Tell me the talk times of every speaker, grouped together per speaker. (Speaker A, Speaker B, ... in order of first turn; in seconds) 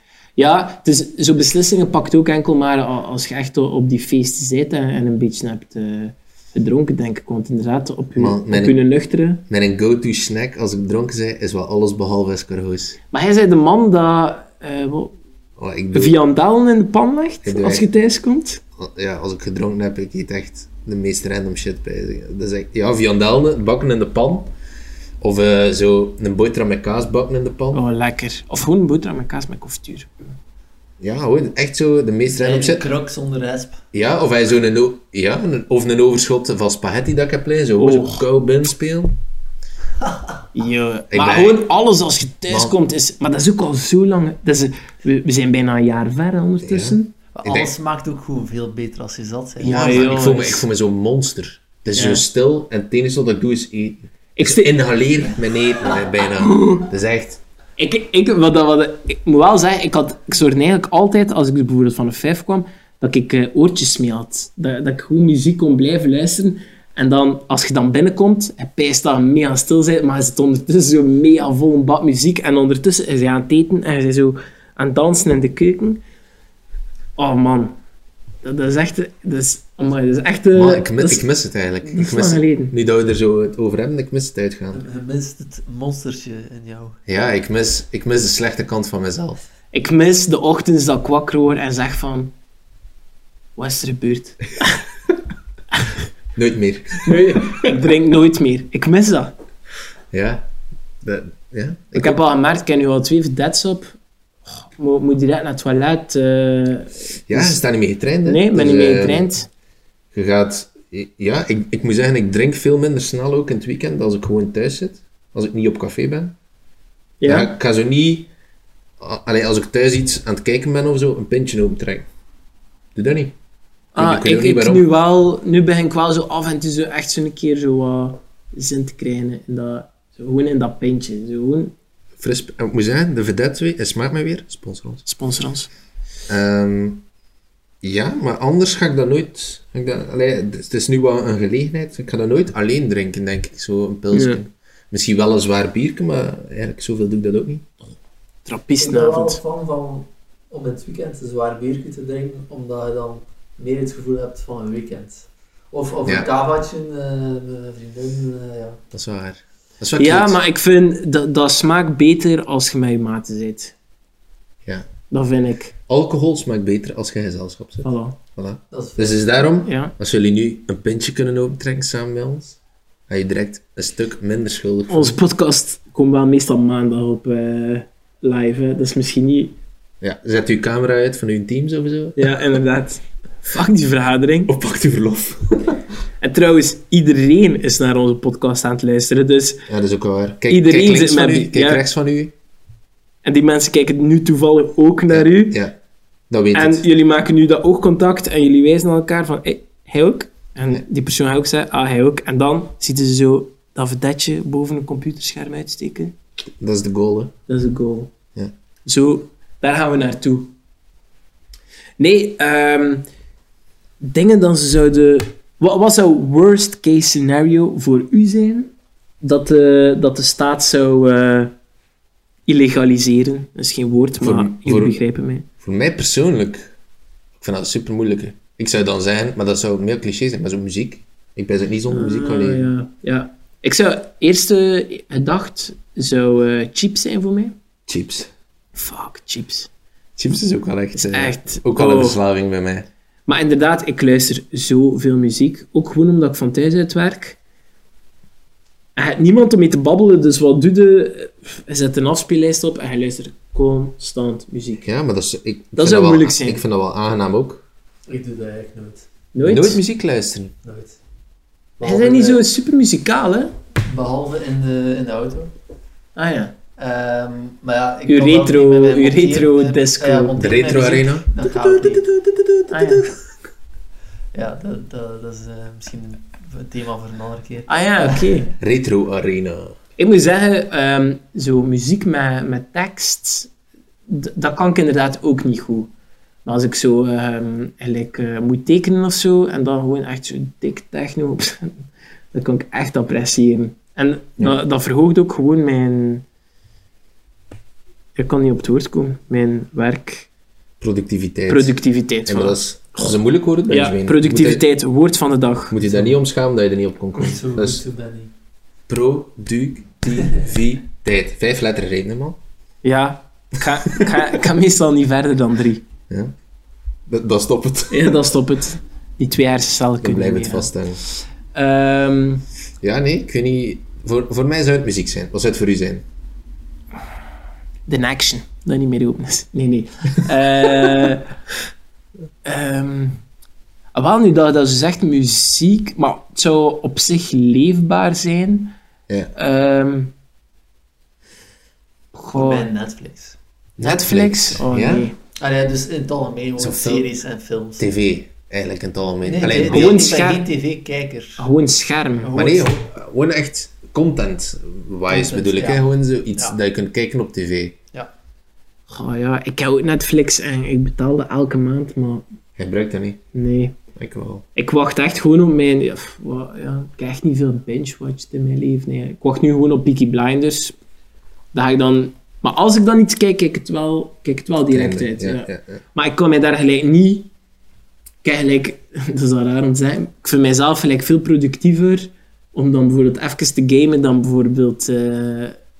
Speaker A: 0.3-9.4, 13.1-15.2, 15.9-18.6, 27.7-30.1, 37.8-38.2, 40.5-47.1, 49.6-50.6, 51.9-52.2, 54.4-54.7, 56.4-56.9, 57.8-76.0, 77.2-77.8, 78.4-81.2, 81.8-82.7, 89.7-92.3, 93.5-94.8, 97.0-99.3, 101.9-103.9, 104.5-107.6, 108.2-109.5, 117.2-117.5, 123.9-131.7, 135.1-135.7, 144.1-144.4, 148.4-149.4, 159.9-163.7, 165.1-165.7, 167.8-168.2, 169.6-169.9, 174.9-179.6, 182.2-184.5, 186.2-189.7, 190.5-191.8, 193.2-195.6, 196.5-206.1, 207.5-208.1, 208.8-210.5, 212.0-213.1, 214.0-221.5, 222.5-225.5, 231.9-237.5, 238.7-239.7, 240.9-242.2, 243.3-247.4, 248.9-254.8, 255.8-256.6, 259.3-259.8, 261.8-263.5, 266.1-266.5, 268.1-270.3, 272.7-273.1, 277.7-278.5, 280.0-283.5, 284.1-285.9, 286.4-296.2, 298.1-300.3, 301.5-302.6, 303.7-305.8, 312.8-315.9, 317.9-320.7, 321.5-322.4, 327.9-331.3, 332.4-333.2, 333.9-338.7, 339.3-340.1, 342.1-342.7, 343.8-345.1, 349.6-350.4, 351.4-352.3, 358.9-362.2, 363.3-363.8, 364.6-370.8, 371.5-377.3, 378.2-385.6
Speaker B: 8.2-8.8, 9.5-13.0, 15.6-16.1, 17.4-17.9, 18.8-24.5, 25.2-27.8, 31.0-32.9, 33.9-39.1, 41.1-41.6, 42.5-42.7, 46.6-47.7, 49.6-57.4, 80.5-84.8, 87.1-89.4, 96.3-97.7, 100.1-100.5, 101.0-102.2, 107.3-109.3, 110.1-116.3, 117.2-118.3, 119.0-122.1, 122.9-123.3, 124.0-124.8, 132.2-135.0, 136.3-137.0, 137.8-147.7, 158.9-160.4, 165.9-172.6, 173.1-175.2, 180.0-182.4, 184.5-185.8, 189.7-192.3, 195.1-195.8, 196.3-196.8, 206.6-207.3, 224.2-225.0, 225.6-226.7, 227.4-232.7, 237.9-238.3, 240.2-242.9, 254.8-257.6, 259.4-260.5, 270.4-271.3, 278.6-279.8, 300.8-304.6, 305.7-307.8, 308.9-312.4, 317.1-318.2, 320.0-321.0, 322.8-326.0, 343.8-345.1, 346.6-347.1, 347.8-350.1, 352.3-357.8, 362.6-363.2, 363.9-364.4, 374.7-375.8
Speaker C: 32.3-33.8, 47.3-50.3, 84.7-87.0, 148.8-158.8, 168.7-169.5, 258.1-259.1, 260.6-261.0, 261.8-262.4, 263.9-265.5, 266.8-273.0, 274.3-278.4, 305.8-306.1, 307.1-308.3, 342.3-343.4, 345.4-347.9, 349.2-351.4, 352.2-352.9, 355.1-355.8